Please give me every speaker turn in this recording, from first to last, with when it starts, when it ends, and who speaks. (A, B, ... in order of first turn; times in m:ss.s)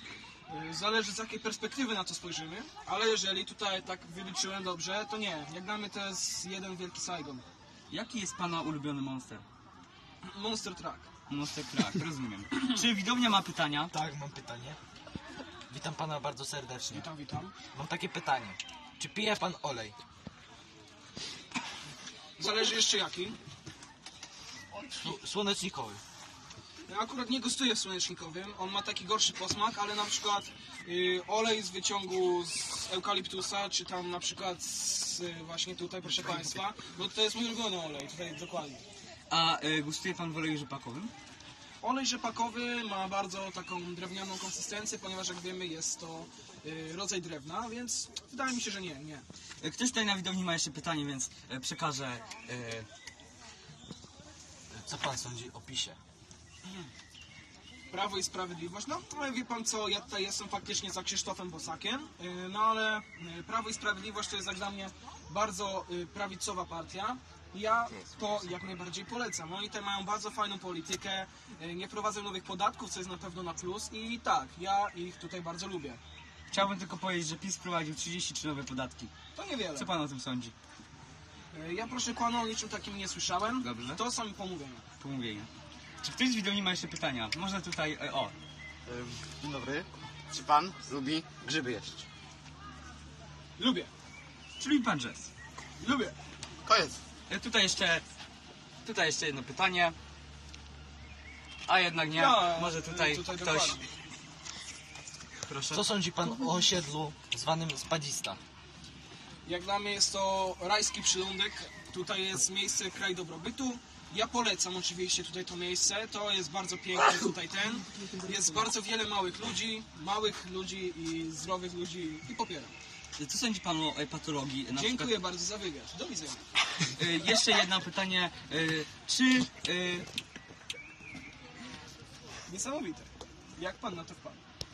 0:00.5-0:07.4 A
0:07.9-0:09.4 B
0:10.2-0:11.1 A
0:11.3-0:13.9 B
0:13.9-0:14.8 C
0:15.7-0:17.1 C
0:16.9-0:17.5 A
0:17.7-0:20.0 C
0:22.4-0:23.4 A
0:24.9-0:26.0 C
0:26.9-0:38.8 A
0:39.3-0:41.1 B
0:41.8-0:49.2 A
0:49.6-0:52.9 B
0:54.7-0:56.0 C
0:57.9-1:16.0 A
1:16.5-1:19.1 B
1:19.4-1:19.9 A
1:19.8-1:20.5 B
1:21.5-1:24.8 A
1:23.6-1:24.0 B
1:25.0-1:25.5 B
1:26.0-1:28.3 B
1:28.9-1:32.1 D
1:33.6-1:33.9 A
1:34.6-1:35.3 B
1:35.8-1:36.2 A
1:36.6-1:37.0 D
1:37.3-1:38.0 B
1:38.8-1:40.0 B
1:41.7-1:43.8 B
1:42.1-1:43.9 A
1:45.5-1:45.8 B
1:45.7-1:48.4 C
1:49.4-2:02.8 A
2:03.2-2:05.2 B
2:04.7-2:06.5 A
2:07.0-2:10.1 B
2:12.5-2:14.4 A